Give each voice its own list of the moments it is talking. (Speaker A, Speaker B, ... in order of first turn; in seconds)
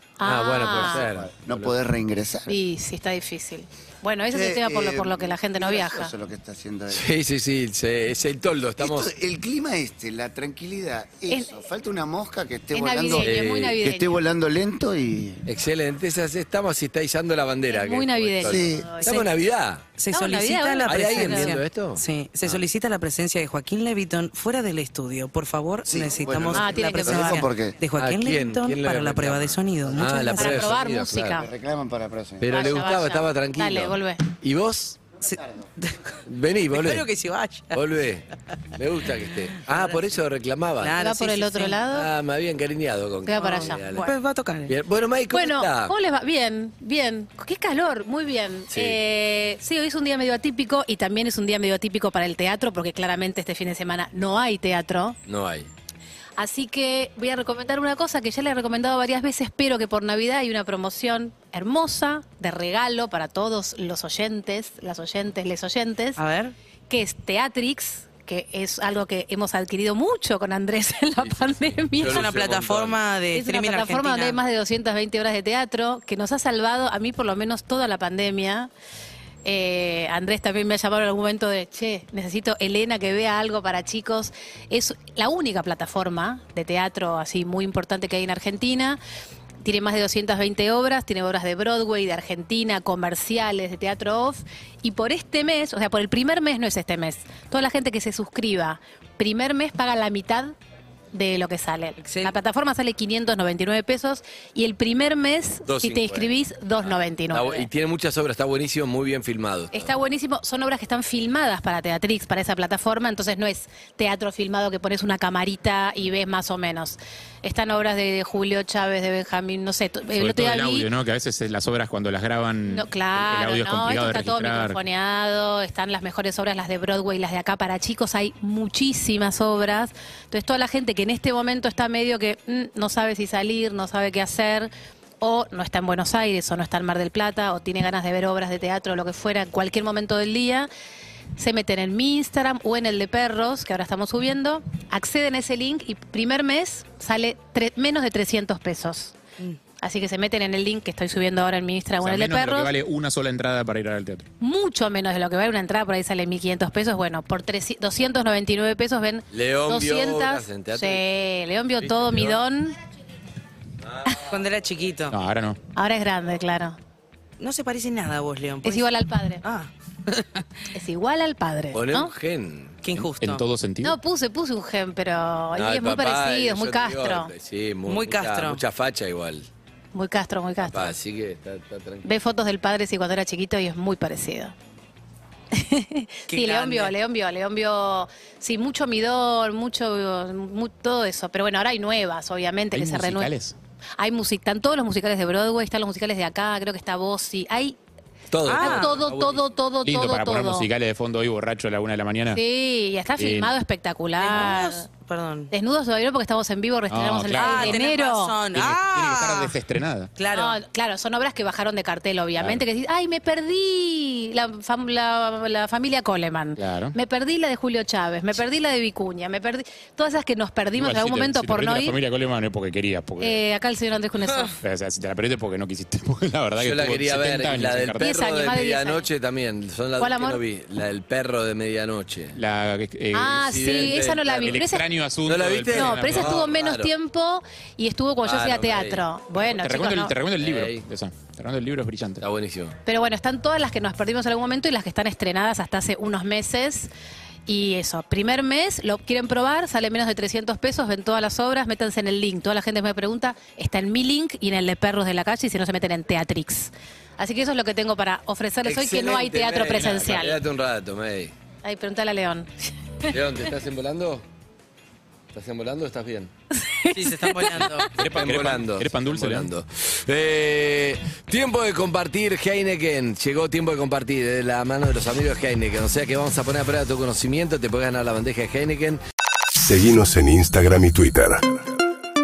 Speaker A: 0.2-1.0, 2.5-6.1, 11.3-11.6, 12.7-14.2, 17.7-19.2, 20.1-21.6, 26.5-27.4, 30.4-31.5, 32.5-34.2, 41.0-42.1, 43.2-43.8, 45.3-55.2, 56.4-66.2, 66.9-72.3, 73.3-78.7, 79.4-89.0, 89.6-100.5, 101.1-107.6, 109.7-120.9, 122.7-140.7, 141.3-149.1, 149.8-152.7, 154.4-162.8, 165.7-166.8, 168.6-169.4, 170.7-172.1, 173.8-177.3, 179.9-180.9, 182.0-184.5, 185.5-193.3, 194.0-197.8, 198.6-200.7, 202.3-204.9, 205.5-208.3, 210.3-222.0, 223.2-224.5, 228.0-229.1, 230.0-230.4, 233.1-234.8, 235.7-240.2, 242.8-246.9, 247.5-260.4, 261.6-263.1, 266.5-267.8
Speaker B: 0.2-1.7, 6.9-9.1, 13.2-13.8, 15.4-19.8, 20.9-22.6, 27.9-31.4, 32.4-35.0, 36.2-37.0, 37.7-41.0, 41.9-44.1, 44.7-45.9, 48.7-49.0, 55.2-55.7, 71.2-73.0, 105.7-109.9, 159.3-161.0, 161.8-162.4, 171.7-172.8, 175.5-179.5, 180.6-182.1, 198.3-199.6, 226.6-232.4, 233.4-234.6, 235.2-236.9, 238.2-239.0, 240.4-240.8, 242.2-242.8, 258.6-261.3, 263.1-264.2, 265.3-266.3, 268.1-279.0
Speaker C: 0.7-2.5, 4.3-7.1, 8.8-15.4, 18.4-19.1, 25.9-27.8, 29.9-30.5, 31.4-32.9, 35.4-35.6
Speaker D: 20.0-30.5, 35.2-36.1, 36.7-37.8, 39.7-40.0, 40.8-41.9, 43.3-44.7, 66.2-66.5, 72.0-74.4, 102.0-102.4, 164.3-165.1, 167.4-170.4, 172.8-173.4, 177.8-178.6, 186.3-186.9, 198.4-199.0, 204.2-205.5, 207.3-209.6, 210.2-210.6, 266.9-268.1
Speaker E: 120.1-124.8, 152.0-154.2, 165.1-165.6, 173.0-173.9, 192.7-193.5, 199.8-202.4, 203.2-203.5, 206.9-207.8, 208.5-210.1, 216.6-216.9, 220.8-223.4, 224.6-228.1, 232.3-236.5, 239.4-242.2, 267.9-269.5
Speaker F: 279.6-281.6